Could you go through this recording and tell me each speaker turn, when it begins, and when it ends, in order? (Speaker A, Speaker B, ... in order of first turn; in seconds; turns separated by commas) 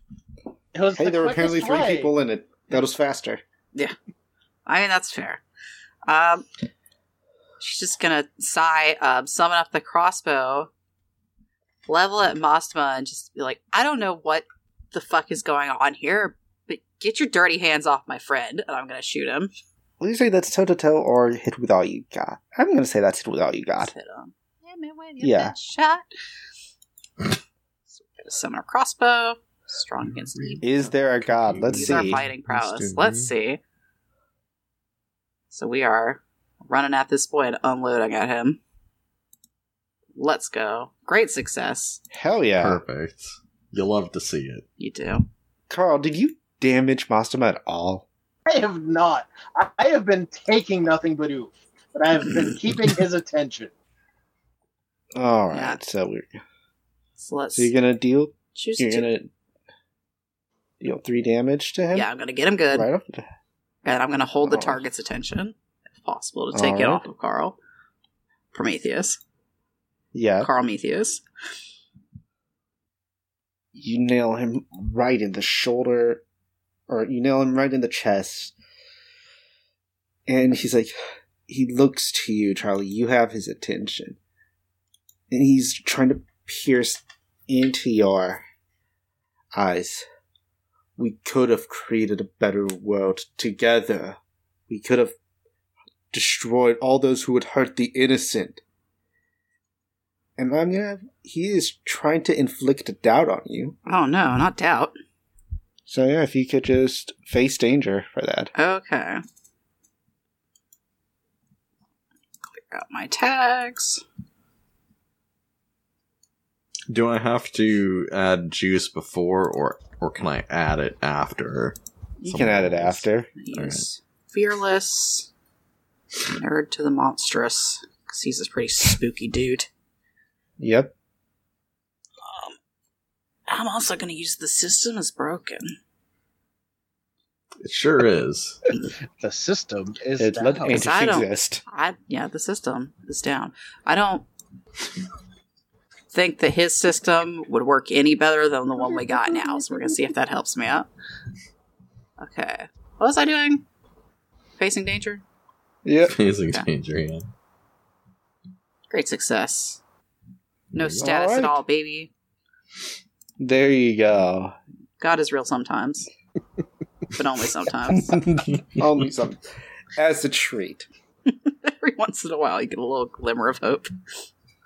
Speaker A: 0.7-2.1, Speaker B: 0.9-3.4, Speaker C: 4.7-5.4, Speaker C: 6.1-6.4, Speaker C: 7.6-10.7, Speaker C: 11.8-19.5, Speaker B: 20.0-23.9, Speaker C: 23.9-26.1, Speaker B: 25.2-25.5, Speaker C: 28.2-30.9, Speaker D: 30.1-30.6, Speaker B: 30.6-32.2, Speaker D: 31.2-33.3, Speaker C: 31.7-33.6, Speaker C: 35.5-38.6, Speaker C: 40.1-42.0, Speaker B: 42.1-42.8, Speaker D: 42.6-44.6, Speaker C: 44.8-45.3, Speaker B: 45.7-48.0, Speaker A: 48.5-53.7, Speaker B: 55.1-56.3, Speaker C: 55.5-55.8, Speaker C: 57.2-57.7, Speaker B: 57.5-59.3, Speaker C: 58.5-59.1, Speaker B: 60.8-62.1, Speaker C: 61.9-62.9, Speaker B: 62.7-63.3, Speaker C: 63.8-67.5, Speaker B: 64.4-64.8, Speaker B: 66.5-67.0, Speaker C: 68.5-69.2, Speaker B: 70.1-70.5, Speaker C: 70.4-71.2, Speaker B: 73.7-76.2, Speaker B: 76.9-78.5, Speaker B: 80.3-81.0, Speaker B: 81.5-84.2, Speaker B: 85.3-88.4, Speaker B: 89.5-90.0, Speaker B: 91.0-95.1, Speaker B: 96.1-98.6, Speaker B: 100.4-103.7, Speaker C: 103.9-104.9, Speaker B: 105.9-108.5, Speaker C: 108.5-109.2, Speaker C: 112.5-114.0, Speaker D: 116.9-123.8, Speaker B: 122.2-123.3, Speaker C: 123.4-125.3, Speaker C: 126.2-129.7, Speaker B: 130.6-130.9, Speaker C: 132.2-132.6, Speaker C: 133.5-135.7, Speaker D: 137.6-138.6, Speaker A: 139.2-140.8, Speaker B: 140.2-141.6, Speaker C: 140.7-144.2, Speaker C: 146.1-150.9, Speaker B: 148.8-150.1, Speaker C: 152.2-153.6, Speaker C: 154.6-155.2, Speaker B: 155.8-156.1, Speaker D: 156.1-157.3, Speaker C: 158.9-159.8, Speaker D: 160.7-161.0, Speaker C: 160.7-162.1, Speaker B: 161.0-161.6, Speaker B: 163.4-164.5, Speaker C: 165.0-166.1, Speaker C: 167.1-168.2, Speaker B: 167.9-169.4, Speaker B: 169.9-170.9, Speaker C: 171.3-173.9